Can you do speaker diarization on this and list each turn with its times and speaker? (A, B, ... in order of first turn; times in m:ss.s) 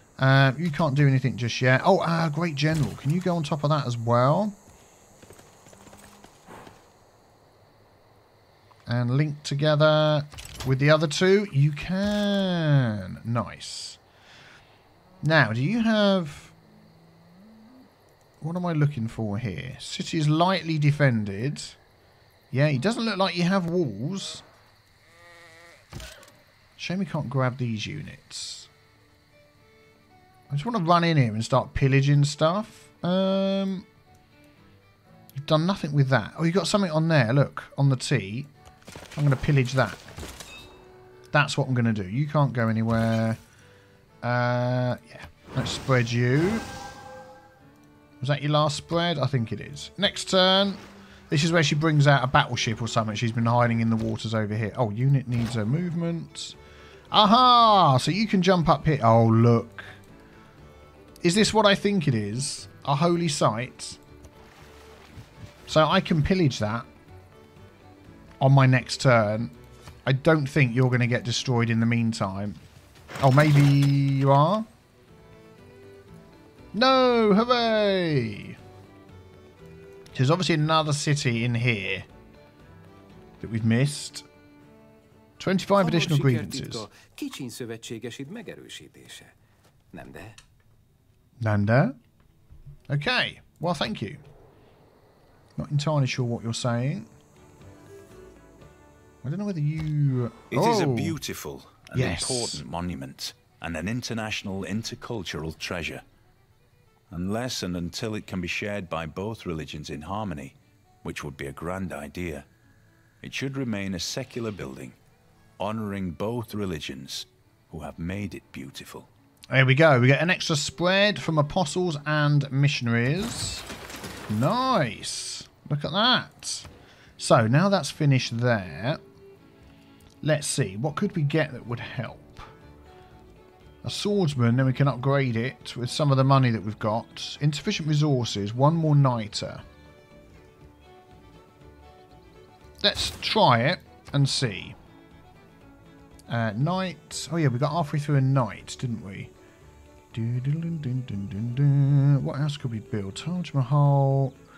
0:00.2-0:04.5 A
0:08.9-0:14.0 A
0:15.2-0:16.5 A
0:18.4-0:21.8 A
0:22.5-0:24.4 A
0:26.8-0:28.7 A
0:30.5-0:33.9 A
0:35.4-0:38.5 A
0:39.1-0:40.0 A
0:41.3-0:43.4 A
0:44.2-0:46.6 A
0:48.2-0:56.6 A
0:57.1-0:59.9 A
1:01.2-1:04.0 A
1:05.7-1:06.9 A
1:08.4-1:09.5 A
1:10.0-1:12.6 A
1:13.2-1:14.7 A
1:16.7-1:18.6 A
1:20.1-1:22.1 A
1:23.4-1:24.2 A
1:25.4-1:26.9 A
1:25.8-1:29.3 B
1:29.9-1:30.4 B
1:31.4-1:32.0 A
1:32.9-1:34.2 A
1:35.6-1:37.1 A
1:39.2-1:41.2 A
1:40.5-1:46.0 C
1:41.9-1:42.6 A
1:47.1-1:52.5 C
1:53.2-1:55.0 C
1:55.6-1:59.1 C
1:59.5-2:03.6 A
2:04.3-2:09.0 A
2:10.2-2:12.5 A
2:13.8-2:19.6 A
2:22.8-2:24.8 A
2:26.3-2:29.3 A
2:30.1-2:34.4 A